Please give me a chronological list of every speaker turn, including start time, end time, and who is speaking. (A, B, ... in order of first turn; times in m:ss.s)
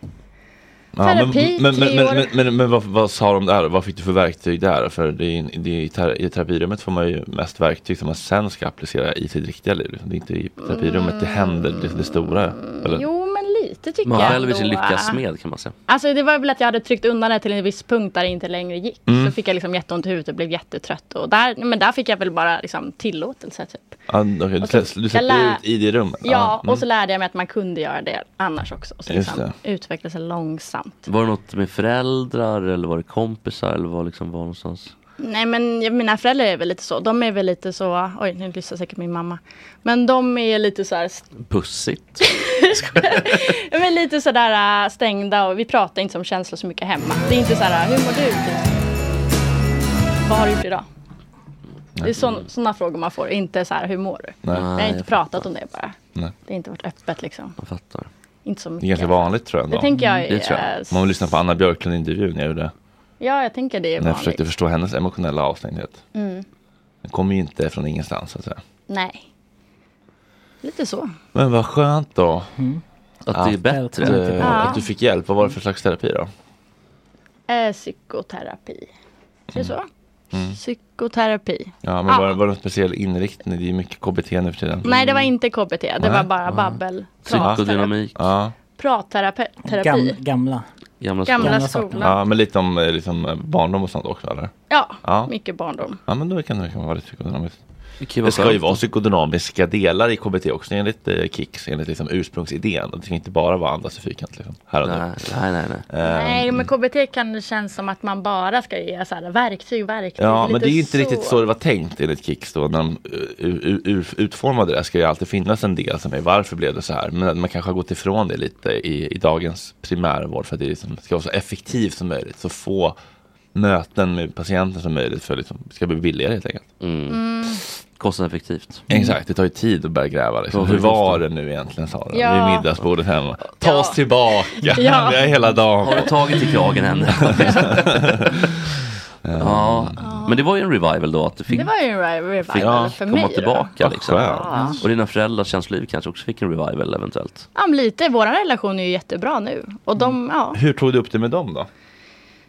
0:00.9-0:13.0 A
0:01.0-0:02.3 B
0:10.6-0:15.2 B
0:14.0-0:15.7 C
0:15.9-0:24.0 B
0:19.1-0:19.3 A
0:24.1-0:26.8 A
0:24.6-0:25.6 B
0:26.2-0:31.0 B
0:29.1-0:29.5 A
0:31.1-0:34.9 C
0:35.2-0:41.2 B
0:41.4-0:43.6 C
0:42.2-0:48.7 B
0:50.2-0:50.8 B
0:52.0-0:55.9 B
0:54.5-0:55.5 C
0:56.5-0:57.5 B
0:57.6-0:58.1 C
0:58.4-1:01.0 B
0:58.8-0:59.9 A
1:00.3-1:00.7 C
1:00.9-1:02.7 A
1:03.2-1:04.4 B
1:04.0-1:06.0 A
1:06.1-1:06.4 B
1:07.0-1:08.6 A
1:08.9-1:09.2 B
1:10.6-1:11.1 B
1:11.3-1:12.5 A
1:12.6-1:12.8 D
1:13.3-1:14.3 C
1:13.3-1:16.3 A
1:13.6-1:14.7 D
1:14.4-1:14.8 B
1:17.5-1:18.9 B
1:19.5-1:19.9 B
1:20.5-1:22.3 B
1:21.8-1:25.0 A
1:24.8-1:27.9 B
1:26.0-1:26.3 A
1:27.2-1:28.1 C
1:27.3-1:27.6 A
1:28.1-1:28.5 A
1:28.7-1:30.2 B
1:29.6-1:30.6 D
1:31.0-1:31.7 C
1:31.2-1:32.2 B
1:31.4-1:32.1 D
1:32.0-1:34.5 A
1:34.7-1:36.0 B
1:35.0-1:35.3 A
1:36.1-1:37.6 A
1:38.0-1:38.8 C
1:38.2-1:45.1 A
1:44.8-1:45.8 C
1:45.9-1:46.7 A
1:46.0-1:51.4 B
1:50.2-2:03.0 A
2:03.5-2:06.7 A
2:06.8-2:08.8 C
2:07.1-2:07.6 B
2:08.9-2:16.1 A
2:10.5-2:11.2 C
2:12.1-2:12.7 B
2:13.5-2:14.0 B
2:14.5-2:15.2 B
2:15.8-2:16.1 B
2:15.8-2:17.9 C
2:17.2-2:17.8 B
2:17.2-2:18.4 A
2:19.2-2:20.0 A
2:19.4-2:21.7 C
2:20.0-2:20.4 B
2:21.5-2:24.8 B
2:22.5-2:27.4 C
2:22.5-2:23.0 A
2:23.8-2:24.5 A
2:27.5-2:30.6 B
2:30.5-2:31.7 A